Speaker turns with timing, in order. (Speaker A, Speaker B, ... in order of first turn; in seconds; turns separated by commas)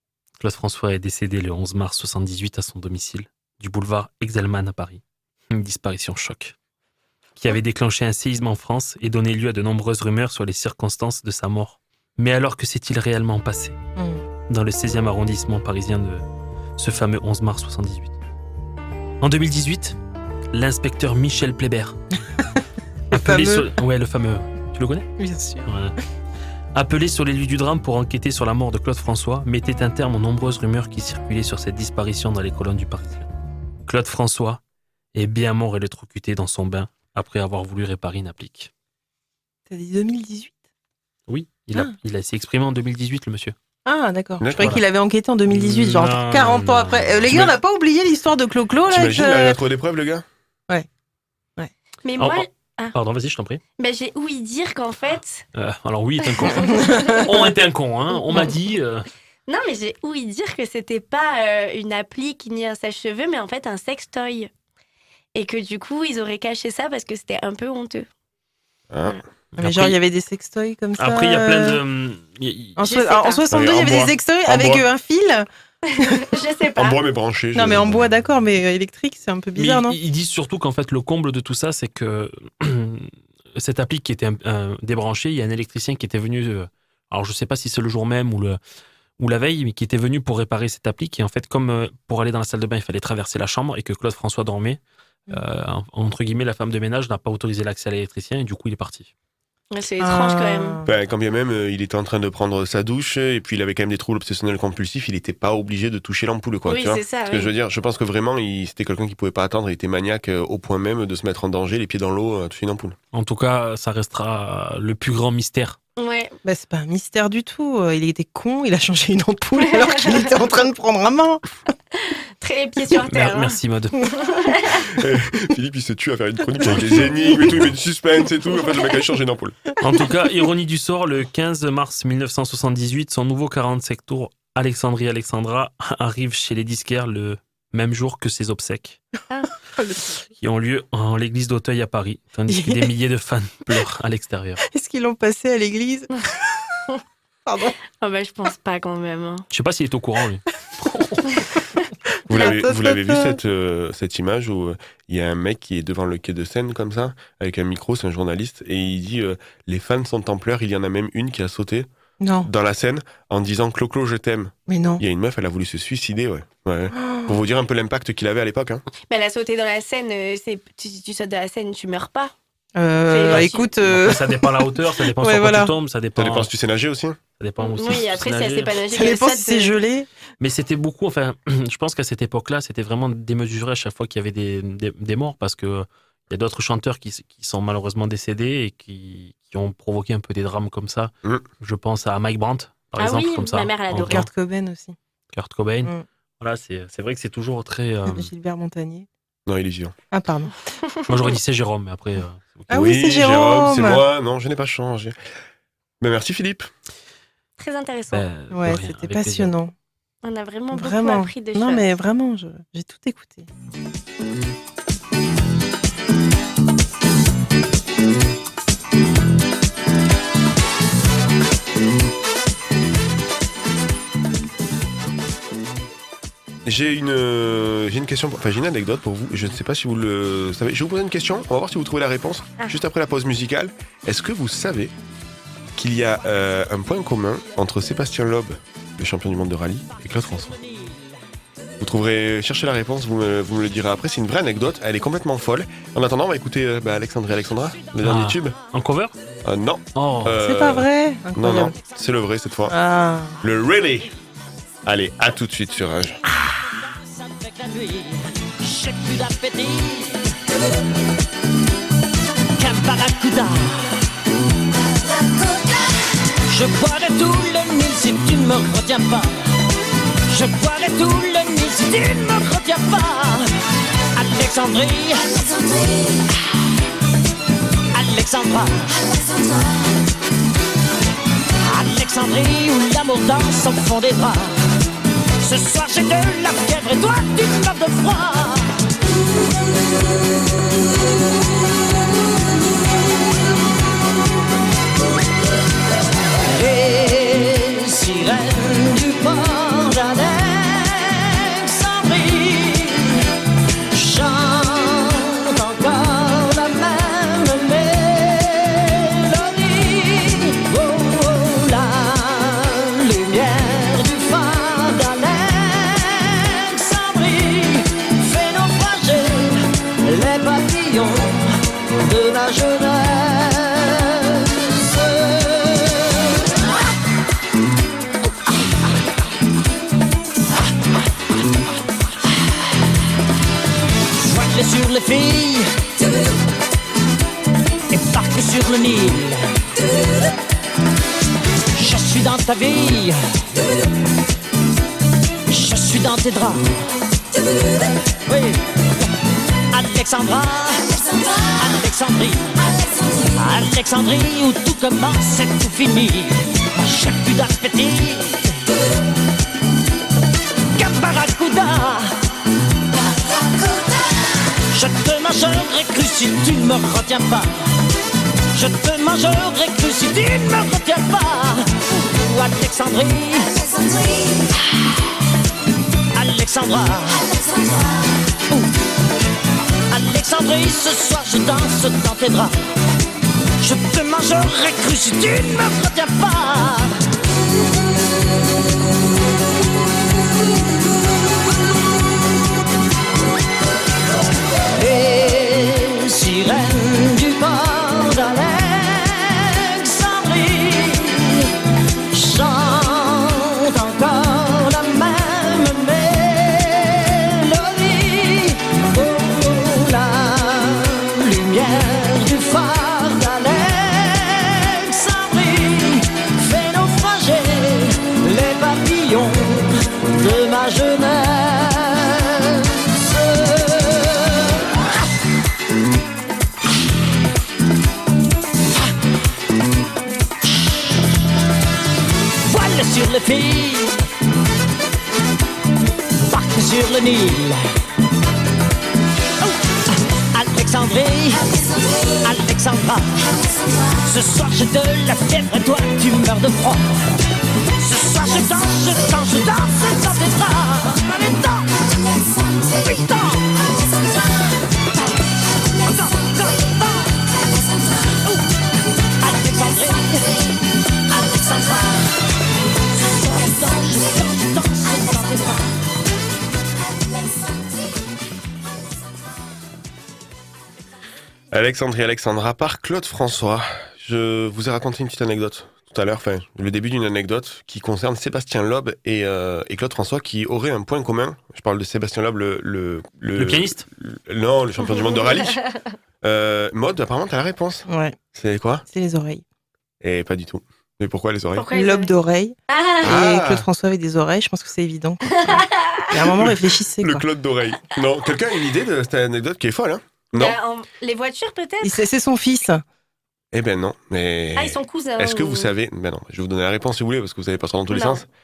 Speaker A: 0.4-6.5, Speaker A: 7.4-13.8, Speaker B: 14.0-14.2, Speaker A: 14.5-16.2, Speaker A: 16.8-18.1, Speaker A: 19.2-19.9, Speaker A: 20.5-22.0, Speaker B: 23.1-23.7, Speaker A: 23.1-25.1, Speaker B: 25.2-25.7, Speaker A: 25.6-25.9, Speaker A: 26.7-33.3, Speaker A: 33.9-34.6, Speaker A: 35.1-38.7, Speaker B: 39.7-40.5, Speaker A: 41.3-43.5, Speaker B: 43.9-49.6, Speaker C: 44.4-44.8, Speaker A: 44.5-44.8, Speaker A: 45.5-47.5, Speaker C: 48.9-50.2, Speaker D: 52.0-52.9, Speaker A: 52.2-53.6, Speaker D: 53.8-55.4, Speaker A: 55.5-59.0, Speaker D: 56.2-57.2, Speaker B: 56.7-57.2, Speaker D: 59.5-64.5, Speaker D: 65.3-68.1, Speaker C: 68.9-69.2, Speaker A: 69.5-70.0, Speaker B: 69.6-71.8, Speaker A: 71.0-72.8, Speaker D: 72.8-73.5, Speaker B: 72.8-75.5, Speaker C: 73.5-74.8, Speaker A: 73.6-73.9, Speaker D: 75.9-77.0, Speaker C: 76.8-78.1, Speaker B: 77.5-80.0, Speaker A: 79.5-88.6, Speaker A: 89.2-99.1, Speaker D: 99.7-100.8, Speaker B: 100.0-100.8, Speaker C: 100.8-112.9, Speaker D: 106.7-107.5, Speaker A: 113.1-115.8, Speaker D: 116.0-116.4, Speaker B: 116.4-121.4, Speaker D: 119.5-120.4, Speaker D: 122.4-123.6, Speaker A: 123.0-124.0, Speaker D: 124.1-124.8, Speaker C: 124.9-129.6, Speaker A: 129.8-139.0, Speaker B: 139.8-140.0, Speaker A: 140.4-144.6, Speaker B: 142.5-142.9, Speaker B: 144.6-146.1, Speaker B: 147.4-147.7, Speaker D: 148.0-149.4, Speaker A: 149.5-151.2, Speaker C: 152.3-161.9, Speaker B: 152.3-153.4, Speaker B: 162.2-162.5, Speaker C: 162.4-168.8, Speaker B: 164.7-165.0, Speaker B: 166.9-167.3, Speaker D: 169.1-172.3, Speaker B: 172.8-174.5, Speaker D: 173.1-173.8, Speaker A: 173.8-176.5, Speaker B: 175.2-175.7, Speaker C: 176.2-177.2, Speaker A: 177.4-178.8, Speaker D: 177.6-179.8, Speaker B: 178.9-180.1, Speaker A: 180.4-194.2, Speaker D: 193.0-194.3, Speaker B: 194.0-194.9, Speaker A: 195.3-198.3, Speaker B: 198.1-199.1, Speaker C: 199.5-199.9, Speaker B: 200.1-200.5, Speaker A: 201.1-202.8, Speaker B: 202.7-204.0, Speaker C: 202.7-205.2, Speaker C: 206.0-206.7, Speaker D: 207.6-208.3, Speaker A: 208.1-209.6, Speaker B: 208.5-209.7, Speaker D: 210.2-212.0, Speaker B: 210.7-213.4, Speaker C: 226.7-234.9, Speaker C: 235.8-240.6, Speaker C: 241.8-248.5, Speaker A: 248.0-249.1, Speaker C: 249.4-252.8, Speaker A: 249.9-250.5, Speaker B: 250.3-251.7, Speaker B: 252.7-253.3, Speaker C: 253.4-254.1, Speaker C: 254.8-256.2, Speaker E: 257.2-260.3, Speaker E: 262.6-263.9, Speaker E: 266.5-269.3, Speaker E: 270.3-273.5, Speaker E: 274.1-276.2, Speaker E: 277.9-279.2, Speaker E: 281.6-284.5, Speaker E: 285.4-288.7, Speaker E: 296.5-303.2, Speaker E: 303.9-326.2, Speaker E: 334.2-335.7, Speaker E: 337.9-339.4, Speaker E: 341.8-343.2, Speaker E: 345.5-346.7, Speaker E: 348.2-349.0, Speaker E: 349.7-352.6, Speaker E: 353.3-358.5, Speaker E: 360.8-362.1, Speaker E: 364.7-367.5, Speaker E: 368.5-374.5, Speaker E: 376.1-377.8, Speaker E: 379.9-382.6, Speaker E: 383.6-386.9, Speaker E: 394.7-401.5, Speaker E: 402.1-424.5, Speaker E: 432.5-433.9, Speaker E: 436.2-437.6, Speaker E: 439.4-441.5, Speaker E: 442.1-443.1, Speaker E: 444.0-447.0, Speaker E: 447.8-451.7, Speaker E: 452.7-453.4, Speaker E: 455.8-457.1, Speaker E: 459.2-460.4, Speaker E: 461.1-462.1, Speaker E: 463.0-465.6, Speaker C: 471.5-485.6, Speaker A: 483.4-483.8, Speaker D: 484.8-485.8, Speaker C: 486.2-488.8, Speaker B: 487.9-488.1, Speaker B: 488.9-489.4, Speaker C: 490.0-491.7, Speaker D: 491.5-492.1, Speaker B: 491.7-495.2, Speaker D: 492.7-493.2, Speaker C: 493.0-493.7, Speaker D: 495.2-496.3, Speaker B: 496.1-497.2, Speaker C: 496.4-500.6, Speaker D: 500.3-502.0, Speaker B: 501.8-502.8, Speaker C: 503.5-508.2, Speaker D: 504.6-505.7, Speaker D: 507.9-508.2